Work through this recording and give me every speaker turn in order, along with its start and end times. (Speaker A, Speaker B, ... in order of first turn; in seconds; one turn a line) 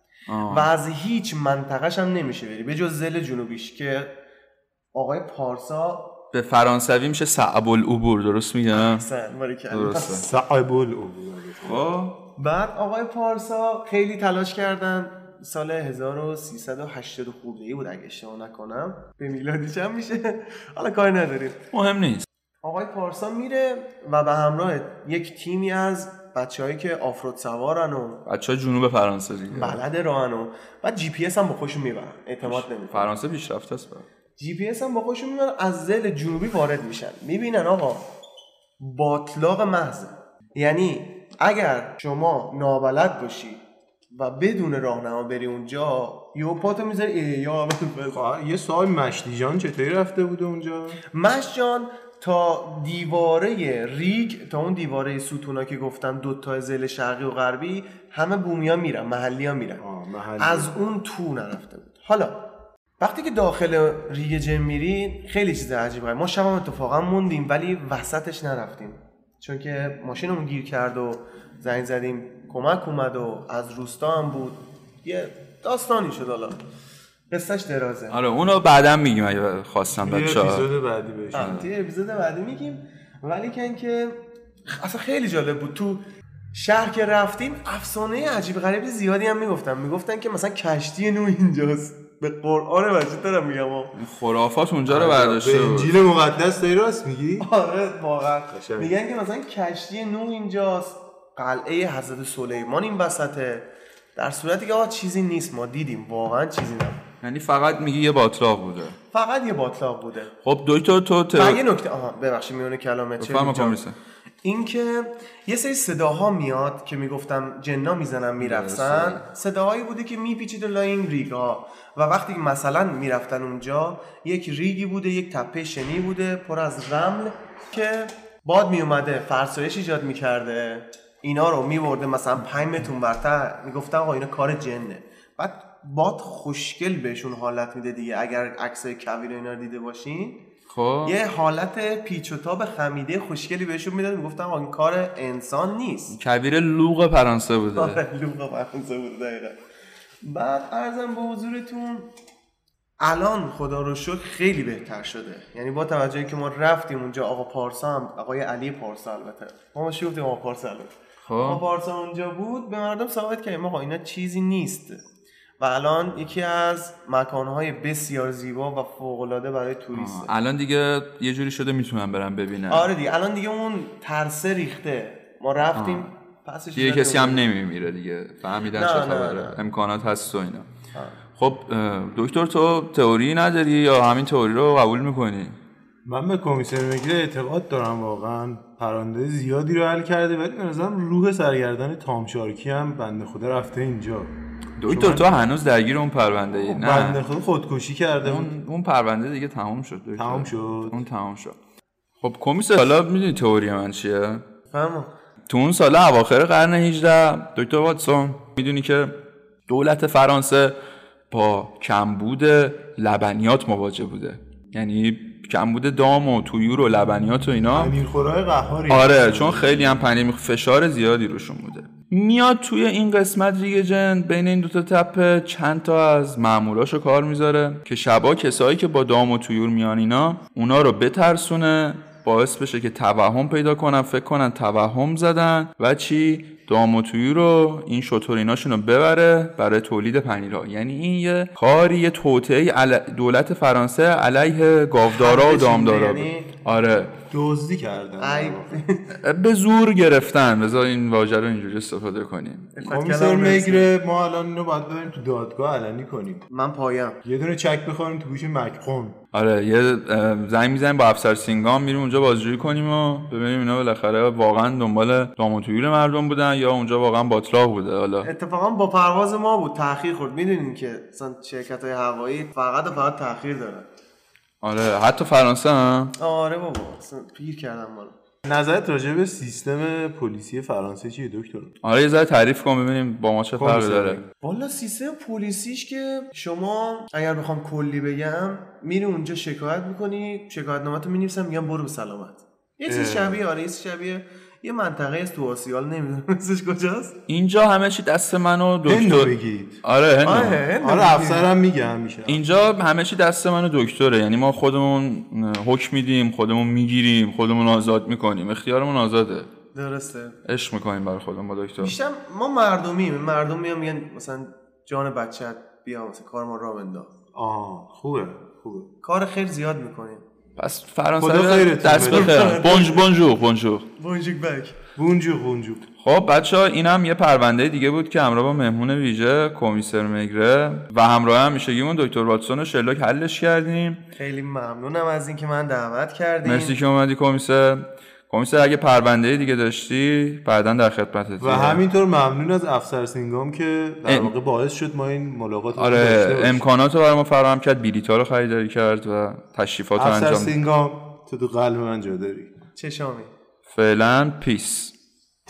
Speaker A: 0.3-0.7
Speaker B: 0.5-4.1
Speaker B: 4.9-6.1
Speaker A: 6.3-9.0
Speaker B: 8.7-10.2
Speaker A: 9.7-10.2
Speaker C: 10.2-11.8
Speaker A: 11.6-12.2
Speaker B: 12.4-21.6
Speaker A: 21.7-22.2
Speaker B: 22.6-28.2
Speaker A: 28.2-29.8
Speaker B: 29.5-33.1
Speaker A: 32.4-34.0
Speaker B: 34.4-38.0
Speaker B: 38.8-43.6
Speaker B: 44.1-48.2
Speaker C: 48.1-51.0
Speaker B: 51.1-59.8
Speaker C: 59.8-60.7
Speaker B: 60.4-62.4
Speaker B: 63.0-76.6
Speaker B: 77.3-78.2
Speaker A: 78.1-80.6
Speaker C: 80.0-81.7
Speaker B: 81.3-93.9
Speaker A: 81.3-81.6
Speaker A: 93.9-95.9
Speaker C: 94.9-97.5
Speaker B: 97.4-107.0
Speaker C: 98.5-99.0
Speaker A: 107.2-109.0
Speaker B: 109.1-110.3
Speaker A: 110.4-111.6
Speaker B: 111.3-113.8
Speaker A: 113.2-114.0
Speaker B: 114.4-140.4
Speaker A: 118.4-119.2
Speaker A: 140.7-141.2
Speaker B: 141.0-146.2
Speaker A: 146.1-148.0
Speaker B: 147.7-149.6
Speaker B: 150.2-152.1
Speaker B: 153.0-165.0
Speaker A: 161.2-161.6
Speaker B: 165.6-170.3
Speaker A: 169.9-172.9
Speaker B: 172.7-177.5
Speaker A: 175.7-176.1
Speaker A: 176.7-180.7
Speaker B: 178.7-179.6
Speaker B: 180.9-181.2
Speaker A: 181.4-185.6
Speaker C: 186.1-194.3
Speaker A: 194.8-197.2
Speaker C: 194.9-195.4
Speaker C: 196.5-198.5
Speaker A: 198.2-201.6
Speaker C: 200.2-201.0
Speaker A: 202.2-204.4
Speaker B: 204.7-205.1
Speaker A: 205.5-209.1
Speaker A: 209.7-210.8
Speaker A: 211.3-218.0
Speaker C: 217.7-220.0
Speaker A: 218.9-247.1
Speaker B: 245.0-246.5
Speaker C: 247.3-248.8
Speaker B: 248.2-249.1
Speaker A: 249.1-252.9
Speaker B: 252.7-253.9
Speaker C: 252.9-256.4
Speaker B: 256.5-257.2
Speaker C: 257.2-259.1
Speaker A: 259.3-268.3
Speaker B: 268.2-273.9
Speaker A: 274.6-276.1
Speaker B: 276.2-278.1
Speaker C: 278.4-281.7
Speaker A: 281.8-284.2
Speaker C: 283.6-284.2
Speaker B: 284.4-297.1
Speaker C: 292.9-293.4
Speaker A: 297.3-300.6
Speaker C: 298.8-299.8
Speaker B: 300.2-301.5
Speaker C: 300.3-302.6
Speaker A: 302.3-309.5
Speaker B: 309.7-310.4
Speaker A: 310.4-311.9
Speaker B: 311.8-317.1
Speaker C: 317.3-318.9
Speaker B: 319.0-320.2
Speaker A: 320.6-323.9
Speaker C: 321.2-322.4
Speaker B: 322.0-323.1
Speaker B: 324.0-324.8
Speaker C: 324.9-325.8
Speaker A: 326.0-334.0
Speaker B: 334.1-336.8
Speaker A: 336.4-341.8
Speaker C: 341.4-346.7
Speaker A: 344.0-344.3
Speaker A: 345.8-350.5
Speaker C: 349.9-352.5
Speaker B: 352.8-353.3
Speaker A: 353.7-354.9